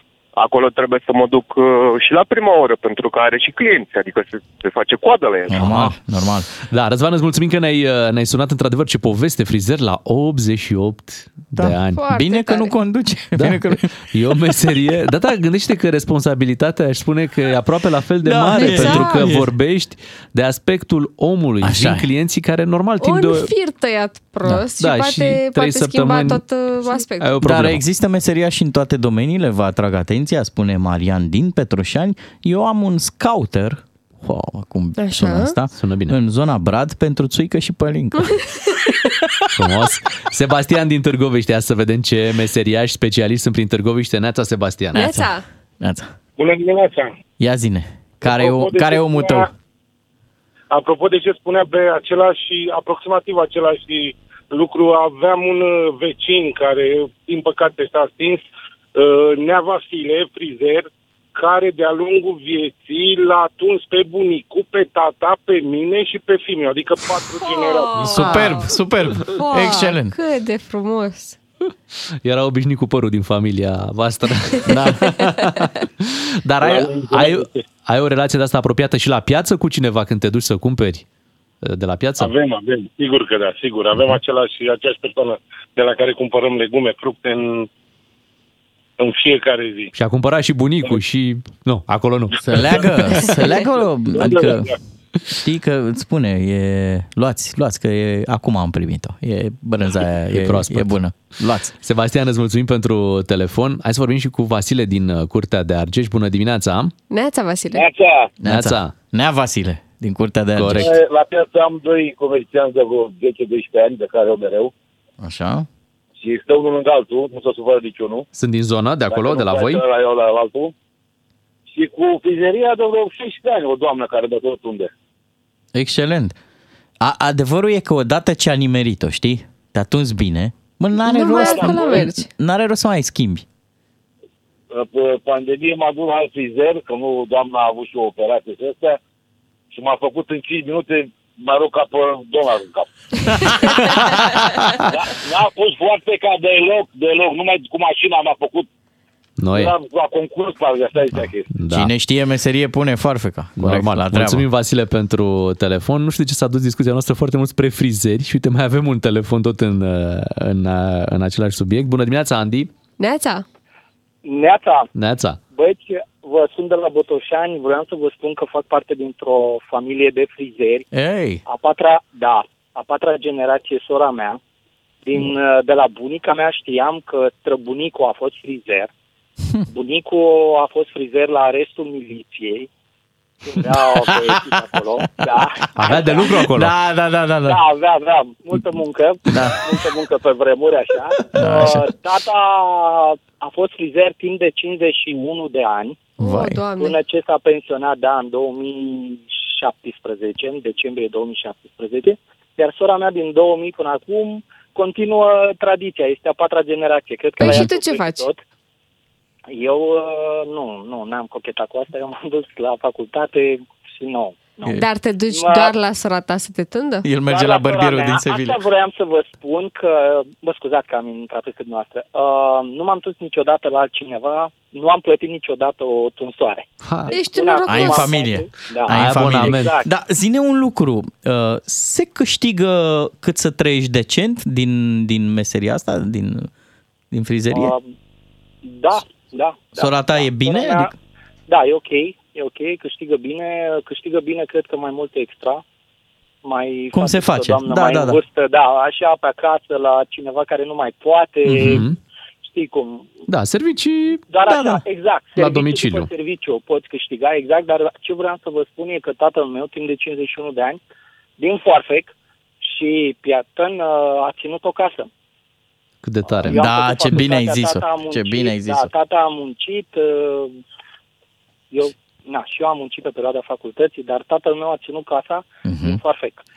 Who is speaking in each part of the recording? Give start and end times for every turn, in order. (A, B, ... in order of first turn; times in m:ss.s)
0:00.4-0:05.8 A
0:05.5-0:06.5 B
0:05.6-0:05.9 C
0:06.7-0:12.0 C
0:11.5-0:14.1 B
0:11.9-0:12.7 D
0:13.4-0:23.5 C
0:18.2-0:19.5 B
0:18.5-0:19.2 D
0:21.6-0:22.1 B
0:23.0-0:27.4 D
0:24.8-0:27.8 C
0:27.4-0:38.4 B
0:35.0-0:35.5 D
0:35.7-0:36.1 C
0:38.2-0:39.1 D
0:39.6-0:45.0 C
0:44.9-0:45.3 B
0:44.9-0:45.4 D
0:45.8-0:46.1 B
0:46.4-0:47.1 E
0:47.4-0:49.5 B
0:48.2-0:49.5 E
0:50.7-1:08.1 E
1:07.4-1:08.7 D
1:08.0-1:10.1 B
1:08.2-1:08.6 C
1:09.2-1:11.4 D
1:12.2-1:21.0 C
1:14.6-1:15.1 B
1:16.6-1:17.6 E
1:21.6-1:22.3 C
1:22.2-1:27.7 E
1:29.0-1:29.9 E
1:29.9-1:33.2 C
1:32.4-1:34.7 B
1:34.1-1:34.8 E
1:35.4-1:41.7 B
1:40.3-1:41.0 C
1:41.8-1:46.9 C
1:47.1-1:47.9 D
1:47.7-1:48.3 F
1:48.4-1:51.0 B
1:48.4-1:48.9 C
1:50.5-1:51.0 C
1:50.8-1:54.7 F
1:55.2-1:55.7 B
1:56.2-1:58.2 F
1:58.3-1:59.8 C
1:59.1-2:00.7 F
2:01.7-2:04.9 F
2:05.7-2:06.4 B
2:07.0-2:13.4 B
2:11.0-2:12.3 D
2:14.7-2:19.0 F
2:19.7-2:23.7 F
2:23.4-2:24.7 B
2:24.9-2:28.7 F
2:29.4-2:29.7 C
2:29.5-2:31.5 F
2:31.1-2:34.4 B
2:31.5-2:31.9 C
2:33.6-2:42.7 C
2:43.0-2:43.4 D
2:44.2-2:44.9 G
2:44.9-2:45.4 C
2:45.5-2:50.9 G
2:50.9-2:51.4 B
2:51.4-2:54.4 G
2:55.0-2:58.9 G
2:59.7-3:02.7 G
3:03.4-3:06.4 G
3:03.6-3:07.6 B
3:05.8-3:06.7 C
3:07.4-3:16.1 G
3:09.3-3:09.7 B
3:11.3-3:11.9 B
3:16.2-3:17.0 D
3:16.2-3:16.6 B
3:16.8-3:28.4 G
3:27.4-3:27.7 B
3:27.4-3:28.3 D
3:29.5-3:34.8 G
3:34.7-3:37.1 D
3:35.3-3:35.7 G
3:37.0-3:38.6 B
3:37.3-3:46.7 G
3:46.8-3:47.1 C
3:47.1-3:48.2 D
3:47.3-3:49.9 G
3:47.7-3:56.5 B
3:48.9-3:49.8 C
3:57.1-3:57.7 B
3:57.5-3:57.9 G
3:58.6-4:00.9 G
3:59.8-4:00.9 B
4:01.5-4:05.6 G
4:06.4-4:11.8 G
4:06.9-4:08.2 B
4:11.5-4:12.0 C
4:12.4-4:13.2 G
4:13.3-4:14.8 C
4:14.3-4:20.8 G
4:14.5-4:14.8 B
4:15.4-4:16.1 C
4:21.4-4:25.1 G
4:26.0-4:26.6 C
4:26.3-4:30.6 G
4:26.4-4:28.9 B
4:31.7-4:36.4 G
4:35.6-4:36.0 B